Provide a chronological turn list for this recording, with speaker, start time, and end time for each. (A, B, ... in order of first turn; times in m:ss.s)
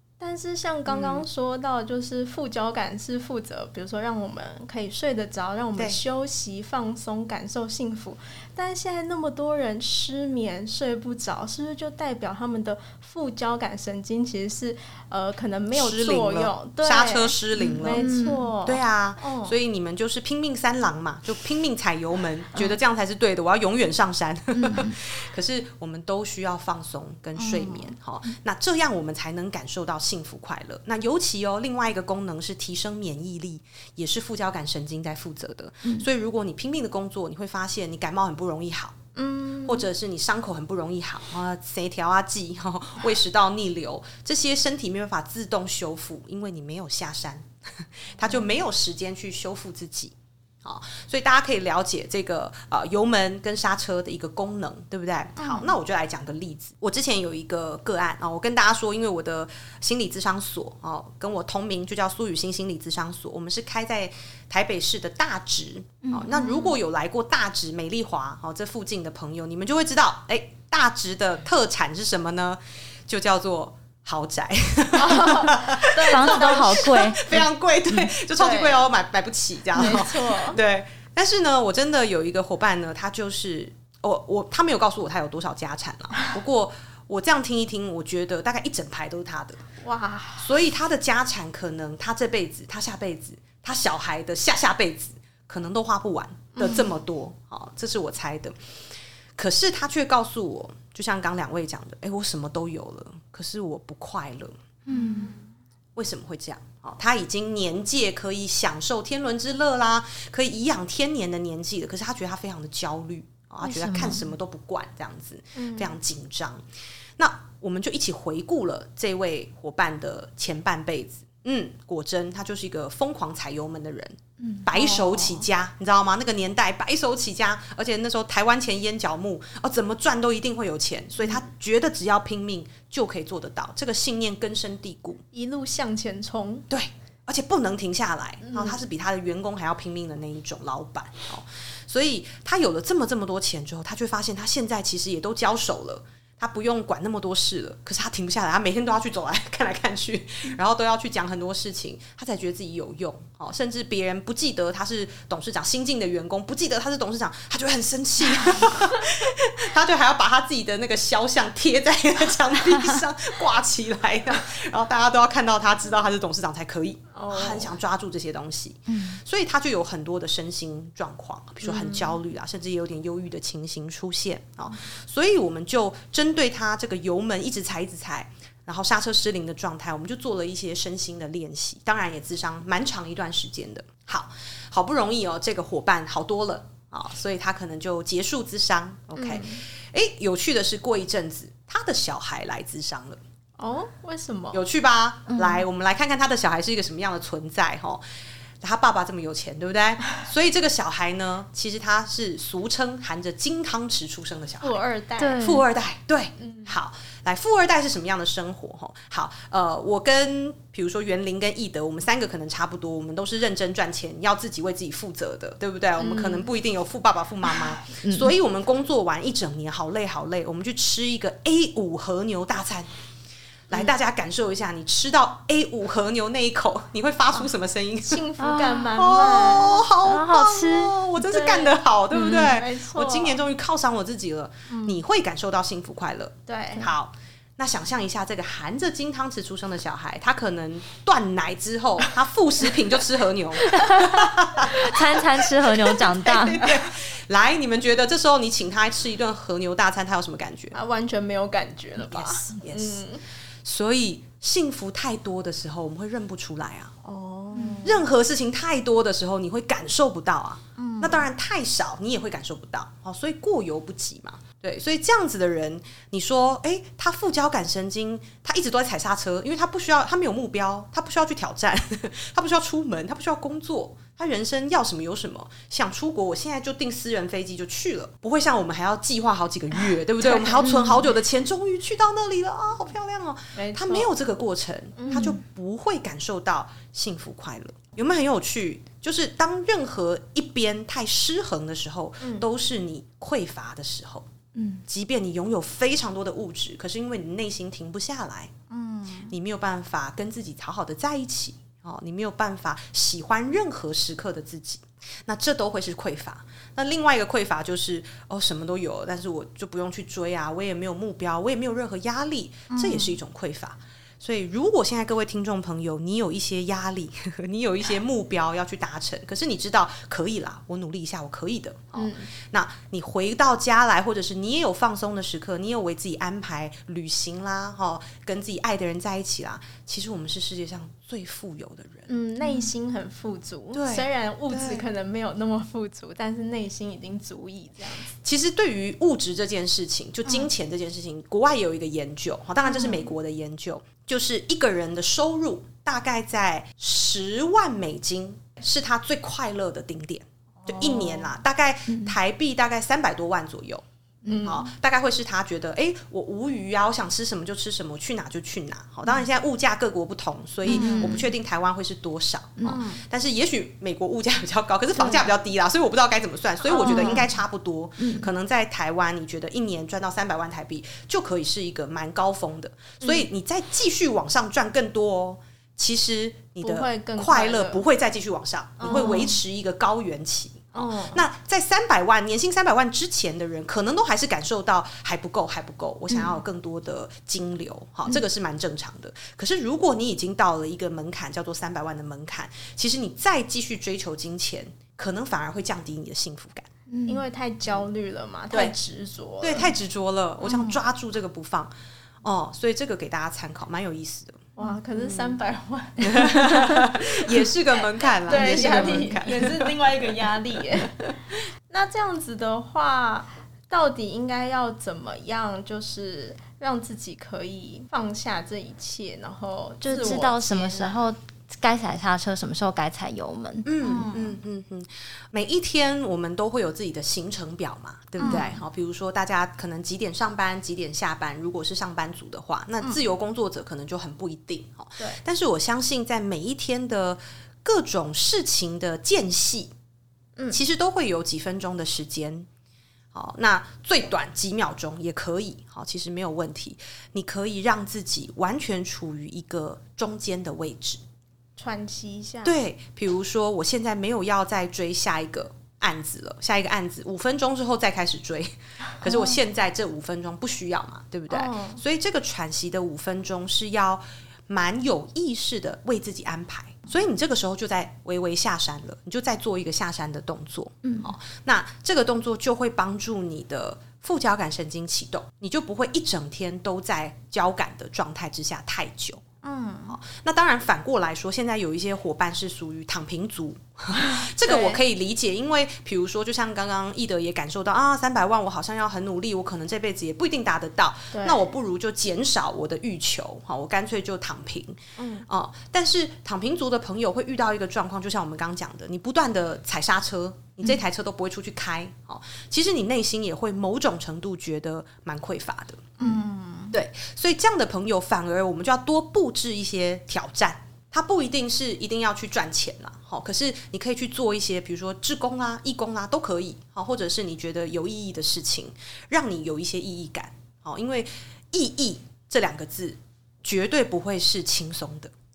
0:00.2-0:19.6 A
0:00.9-0:01.2 B
0:15.7-0:18.1 B
0:17.8-0:18.4 C
0:18.6-0:39.0 B
0:24.5-0:24.9 C
0:27.4-0:27.8 A
0:39.2-0:39.8 A
0:39.6-1:29.6 B
0:55.4-0:55.7 A
1:06.0-1:06.5 C
1:14.9-1:17.0 A
1:16.0-1:18.1 C
1:18.4-1:18.8 A
1:19.7-1:20.6 A
1:29.8-1:30.5 A
1:30.4-1:38.6 B
1:36.5-1:36.9 A
1:39.4-1:44.6 B
1:44.9-1:45.3 C
1:44.9-1:45.3 A
1:45.9-1:56.6 B
1:53.6-1:54.2 C
1:55.5-1:55.9 A
1:57.2-2:15.2 B
2:04.4-2:04.7 C
2:04.7-2:05.4 A
2:15.3-2:16.7 A
2:16.7-3:13.2 B
2:18.4-2:18.8 A
2:47.1-2:47.7 A
2:48.9-2:49.2 C
2:51.6-2:52.2 A
3:09.1-3:09.6 A
3:13.6-3:14.6 A
3:14.5-3:18.0 B
3:15.3-3:15.6 C
3:18.6-3:24.8 B
3:24.6-3:25.5 A
3:25.2-3:25.6 C
3:25.4-3:42.9 B
3:26.4-3:26.7 A
3:36.0-3:36.5 A
3:38.0-3:38.3 C
3:43.7-3:48.2 B
3:48.0-3:49.8 A
3:48.4-3:48.9 C
3:49.0-4:10.8 B
3:50.0-3:51.0 C
3:51.2-3:53.4 A
3:52.2-3:52.4 C
3:54.7-3:55.0 A
3:56.5-3:56.9 A
4:03.7-4:06.7 C
4:10.7-4:13.2 A
4:12.1-4:13.0 B
4:13.6-4:16.9 B
4:17.0-4:18.0 A
4:17.8-4:54.3 B
4:20.8-4:21.2 A
4:40.6-4:41.0 C
4:43.5-4:44.1 A
4:45.0-4:45.3 A
4:52.2-4:52.4 A
4:54.5-4:54.8 C
4:54.9-4:58.5 B
4:58.7-4:59.3 A
4:59.3-5:32.1 B
5:12.7-5:13.1 A
5:21.9-5:22.3 A
5:32.1-5:38.1 A
5:33.7-5:34.8 B
5:38.2-5:53.8 B
5:42.6-5:43.1 A
5:50.6-5:51.3 A
5:51.9-5:52.1 C
5:54.2-5:54.7 A
5:54.4-6:36.7 B
6:00.6-6:01.2 C
6:00.7-6:01.2 A
6:02.6-6:03.0 A
6:05.0-6:05.2 C
6:06.7-6:07.2 A
6:06.8-6:07.2 C
6:08.0-6:08.3 C
6:13.0-6:13.2 A
6:16.6-6:17.8 A
6:18.8-6:19.4 A
6:18.9-6:19.2 C
6:20.7-6:21.2 A
6:36.9-6:37.2 C
6:37.1-6:39.7 A
6:39.4-6:41.7 B
6:40.4-6:40.8 A
6:42.2-6:45.4 B
6:44.6-6:47.1 A
6:46.0-6:49.9 B
6:48.2-6:50.9 A
6:48.3-6:49.1 C
6:50.8-6:51.1 B
6:51.7-7:01.0 A
6:59.8-7:03.7 C
7:03.6-7:19.7 B
7:03.8-7:04.3 A
7:08.2-7:08.5 A
7:08.2-7:08.5 C
7:20.5-7:22.5 B
7:23.1-7:31.0 B
7:31.6-7:32.5 A
7:32.4-7:59.2 B
7:39.1-7:39.3 A
7:41.3-7:41.8 A
7:50.8-7:51.1 C
7:59.4-8:00.0 A
7:59.9-8:26.0 B
8:04.4-8:04.8 A
8:11.1-8:11.4 A
8:15.0-8:15.2 A
8:26.0-8:26.7 A
8:26.7-8:45.1 B